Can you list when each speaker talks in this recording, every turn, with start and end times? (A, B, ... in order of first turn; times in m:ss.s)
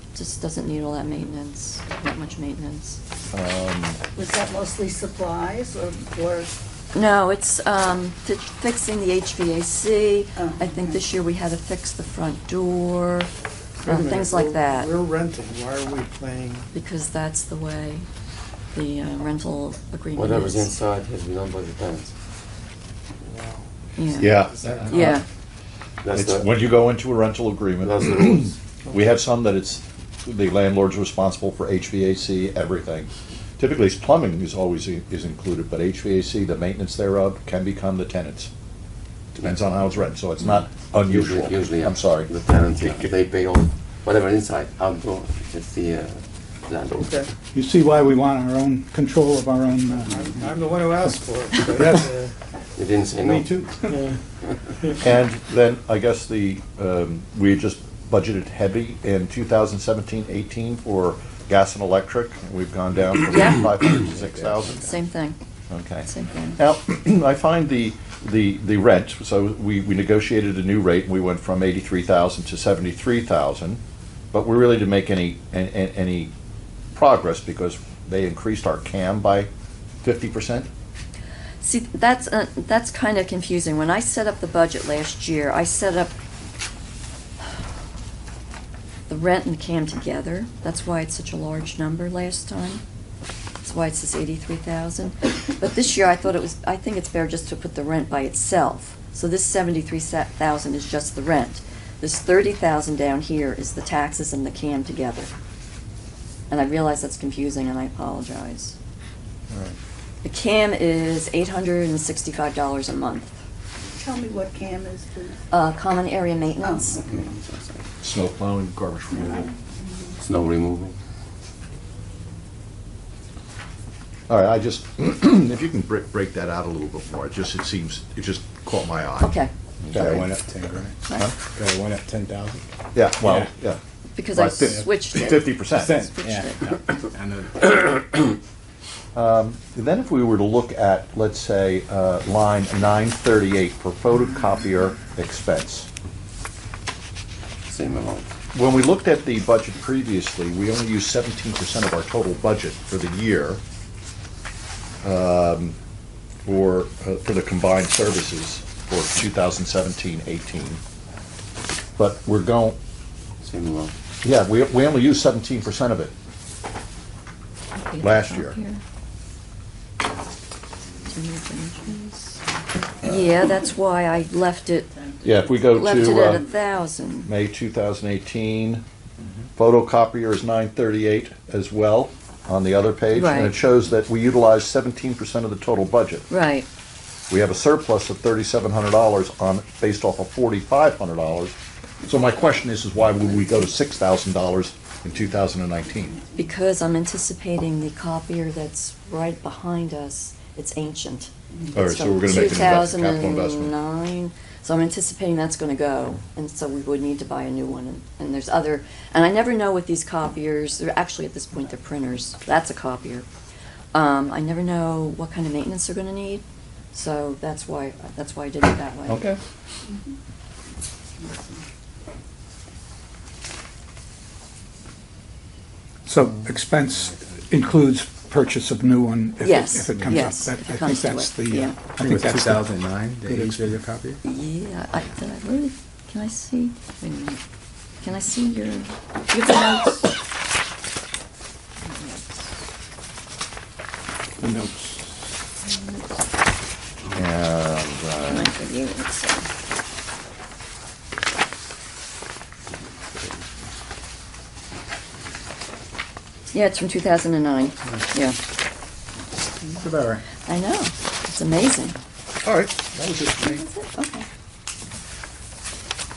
0:00.2-0:03.0 A
0:03.3-0:04.0 B
0:04.2-0:06.6 C
0:06.9-0:13.3 A
0:10.4-0:11.0 C
0:13.8-0:16.7 D
0:13.9-0:14.9 A
0:16.8-0:18.0 A
0:18.7-0:20.6 A
0:20.1-0:22.1 E
0:23.2-0:23.6 D
0:24.2-0:25.2 B
0:24.3-0:25.1 E
0:24.4-0:25.1 D
0:26.0-0:26.5 E
0:26.1-0:38.5 B
0:27.8-0:28.5 E
0:39.4-0:43.1 B
0:41.0-0:47.2 E
0:47.0-0:47.3 D
0:47.5-0:50.4 F
0:50.0-0:52.4 D
0:51.8-0:52.0 F
0:52.8-0:53.6 E
0:53.2-0:54.1 D
0:55.0-1:04.9 B
1:03.3-1:03.6 A
1:04.9-1:05.4 A
1:05.7-1:13.8 B
1:06.1-1:06.6 A
1:14.3-1:16.3 B
1:16.9-1:19.5 B
1:20.0-1:20.7 B
1:21.6-1:26.1 A
1:29.1-1:32.8 A
1:33.6-1:45.3 A
1:46.5-1:48.8 A
1:50.2-1:53.3 A
1:54.0-1:55.4 C
1:55.5-1:56.9 A
1:56.6-1:57.0 C
1:57.1-1:57.8 E
1:58.0-1:59.5 B
2:00.2-2:01.0 E
2:04.3-2:10.4 B
2:09.2-2:09.5 A
2:09.9-2:12.7 G
2:12.9-2:13.8 B
2:13.2-2:13.5 G
2:14.2-2:15.2 A
2:14.3-2:16.0 B
2:14.4-2:18.3 G
2:14.5-2:14.8 E
2:16.2-2:16.6 A
2:19.2-2:25.9 B
2:27.7-2:28.3 E
2:28.5-2:33.6 B
2:35.0-2:35.8 B
2:36.4-2:40.8 B
2:42.0-2:42.8 B
2:43.4-2:43.9 E
2:44.2-2:46.1 B
2:47.9-2:48.8 A
2:48.0-2:48.6 B
2:51.1-2:52.0 A
2:53.1-2:54.9 A
2:55.2-2:56.4 B
2:55.7-2:57.3 A
2:57.3-2:58.8 B
2:59.6-3:06.3 B
3:03.2-3:03.5 A
3:06.3-3:06.7 A
3:07.3-3:16.2 B
3:16.4-3:21.3 A
3:21.7-3:23.8 B
3:21.8-3:33.2 A
3:33.9-3:39.1 A
3:39.1-3:39.4 B
3:46.1-3:53.8 F
3:49.4-3:51.8 A
3:49.9-3:50.2 G
3:52.0-3:54.2 G
3:54.3-3:57.4 A
3:58.0-4:00.1 A
4:01.9-4:02.2 A
4:04.4-4:05.2 F
4:05.7-4:06.0 A
4:07.2-4:08.5 B
4:08.2-4:09.5 A
4:16.5-4:18.4 A
4:19.6-4:20.2 G
4:20.5-4:22.0 A
4:22.4-4:23.6 B
4:23.6-4:24.3 A